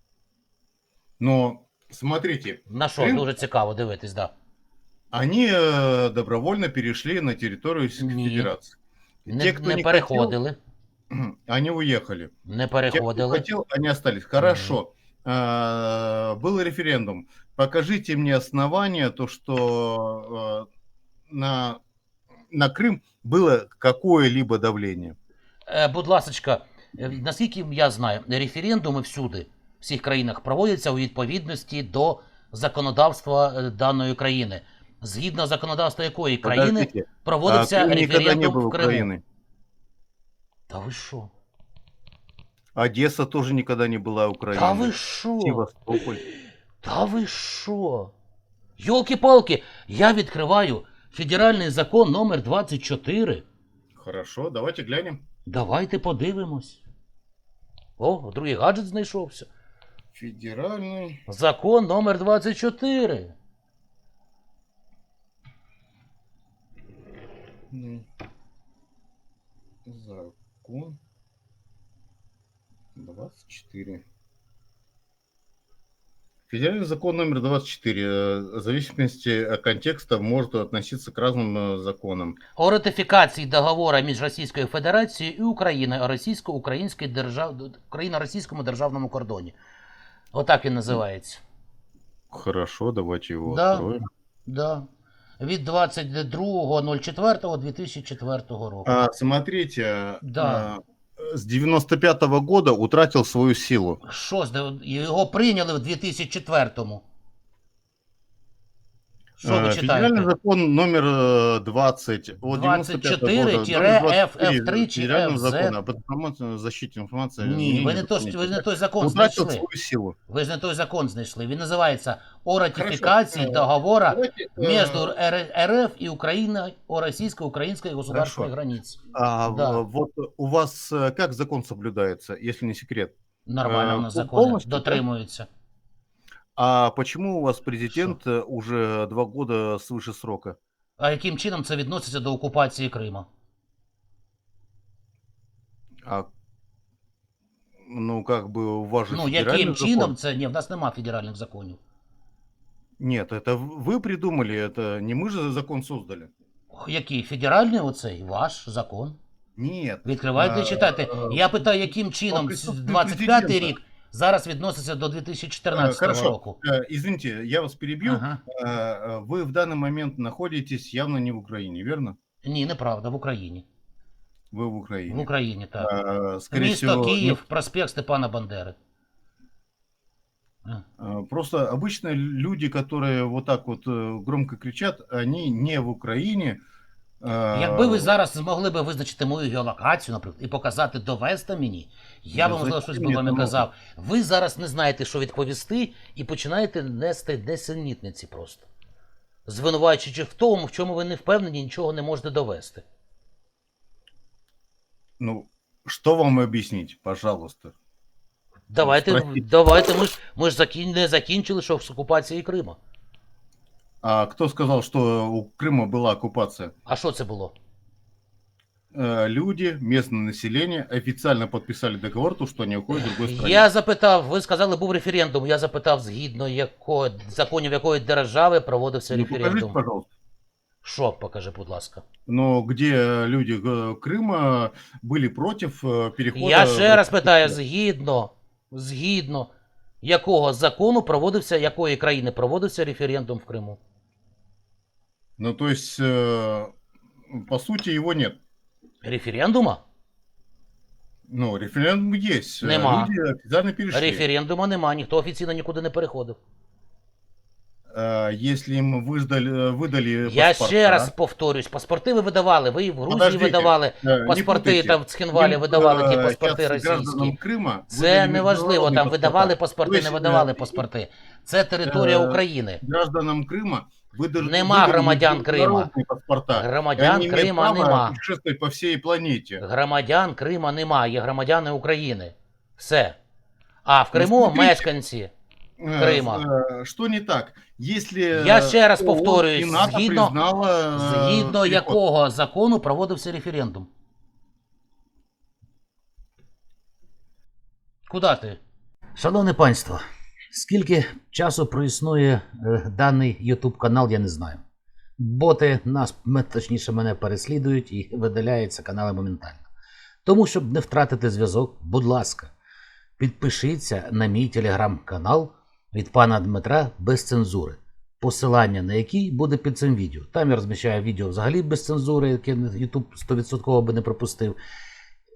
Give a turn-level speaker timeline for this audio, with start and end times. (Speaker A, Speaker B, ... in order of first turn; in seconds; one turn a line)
Speaker A: 1.2-3.3
Speaker B: 2.7-4.3
Speaker A: 5.1-8.7
Speaker B: 8.0-8.5
Speaker A: 9.2-10.3
Speaker B: 9.3-10.6
Speaker A: 11.1-12.3
Speaker B: 12.4-13.4
Speaker A: 12.9-20.7
Speaker B: 14.4-14.8
Speaker A: 21.3-21.8
Speaker A: 22.5-25.1
Speaker B: 25.7-39.1
Speaker A: 36.4-39.2
Speaker B: 40.7-41.3
Speaker A: 42.7-46.2
Speaker B: 44.5-45.6
Speaker B: 46.8-48.1
Speaker B: 48.8-53.4
Speaker A: 54.0-55.2
Speaker B: 55.5-56.8
Speaker B: 58.0-59.5
Speaker A: 60.1-61.2
Speaker B: 61.3-63.3
Speaker A: 67.7-68.0
Speaker A: 69.8-71.0
Speaker A: 73.0-74.0
Speaker A: 76.5-82.4
Speaker B: 82.6-89.5
Speaker B: 90.3-91.4
Speaker A: 92.3-94.0
Speaker B: 93.5-93.9
Speaker B: 94.5-94.8
Speaker B: 95.4-99.0
Speaker A: 98.8-104.0
Speaker B: 100.2-100.7
Speaker B: 104.0-107.0
Speaker B: 109.4-110.3
Speaker A: 109.4-120.1
Speaker B: 112.5-115.8
Speaker B: 117.4-119.6
Speaker B: 120.3-129.8
Speaker A: 122.7-125.1
Speaker A: 128.1-128.5
Speaker A: 129.1-135.0
Speaker B: 133.4-135.5
Speaker A: 136.6-140.6
Speaker B: 141.0-143.2
Speaker A: 147.8-150.1
Speaker B: 149.1-151.8
Speaker A: 153.0-156.3
Speaker B: 156.7-159.2
Speaker A: 159.6-161.5
Speaker B: 160.0-166.6
Speaker A: 162.3-163.7
Speaker A: 165.7-172.2
Speaker B: 168.0-168.4
Speaker B: 172.4-173.6
Speaker A: 174.5-177.4
Speaker B: 175.1-175.9
Speaker B: 176.5-178.8
Speaker A: 181.0-186.6
Speaker A: 187.2-188.1
Speaker B: 187.5-198.7
Speaker A: 192.3-193.6
Speaker B: 199.4-202.8
Speaker A: 205.2-207.7
Speaker B: 208.7-212.8
Speaker A: 208.8-209.4
Speaker A: 214.0-216.7
Speaker B: 216.9-217.5
Speaker A: 218.9-223.7
Speaker B: 222.9-229.8
Speaker A: 229.1-230.1
Speaker B: 230.8-232.0
Speaker A: 232.3-237.6
Speaker B: 236.3-239.5
Speaker B: 240.0-243.8
Speaker A: 245.4-246.7
Speaker A: 247.3-248.4
Speaker B: 249.0-249.8
Speaker A: 251.3-254.2
Speaker B: 252.6-253.1
Speaker B: 253.9-256.4
Speaker A: 257.9-261.1
Speaker B: 260.2-267.4
Speaker A: 263.1-270.8
Speaker B: 267.9-272.8
Speaker A: 271.8-279.6
Speaker B: 274.4-275.9
Speaker B: 276.5-278.1
Speaker B: 279.6-283.2
Speaker B: 283.8-285.3
Speaker A: 284.1-284.9
Speaker A: 285.8-292.0
Speaker B: 286.0-286.4
Speaker B: 288.3-290.3
Speaker B: 290.9-293.9
Speaker B: 298.1-298.6
Speaker B: 299.1-300.0
Speaker B: 300.5-304.6
Speaker B: 305.2-309.6
Speaker B: 310.2-312.5
Speaker B: 313.2-324.6